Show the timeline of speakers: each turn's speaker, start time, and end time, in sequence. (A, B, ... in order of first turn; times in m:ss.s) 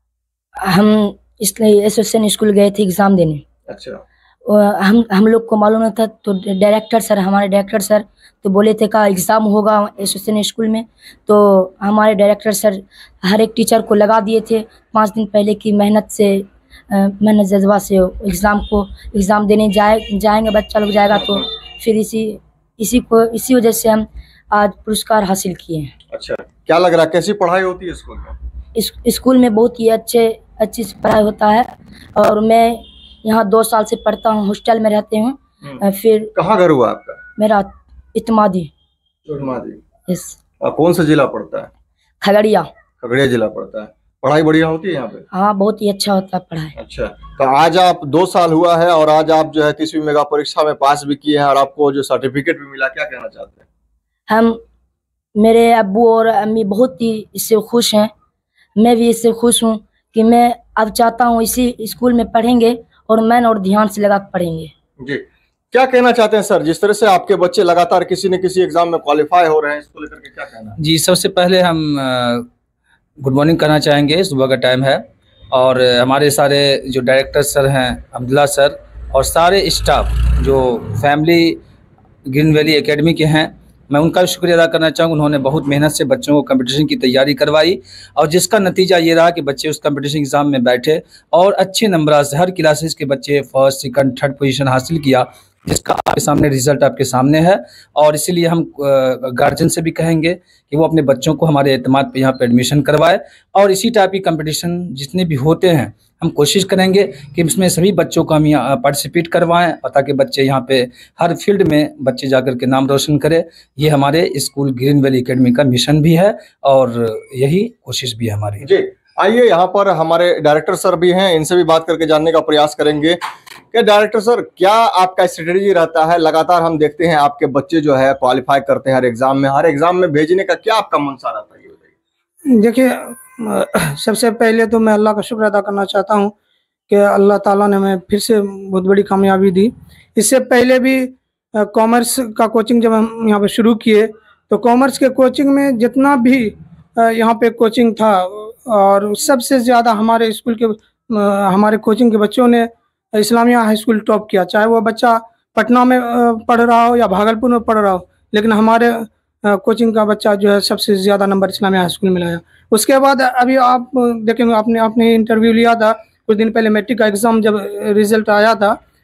0:00.6-0:03.4 A
0:03.7-0:04.0 B
0:04.5-0:25.9 A
0:26.1-0:28.4 B
0:28.8-0:36.3 A
0:36.4-0:37.2 B
0:37.4-0:38.7 A
0:39.3-0:39.8 B
0:40.1-0:40.4 A
0:40.6-0:41.7 B
0:42.2-0:42.7 A
0:43.0-0:45.2 B
0:45.3-0:46.8 A
0:46.8-0:53.6 B
0:54.3-0:54.6 A
0:55.4-0:58.1 A
0:58.8-1:04.7 A
1:05.0-1:10.8 B
1:10.8-1:12.5 C
1:13.2-1:21.6 C
1:22.3-1:58.7 C
1:58.6-2:03.2 B
2:03.7-2:11.8 B
2:12.5-2:16.3 D
2:16.9-2:48.8 D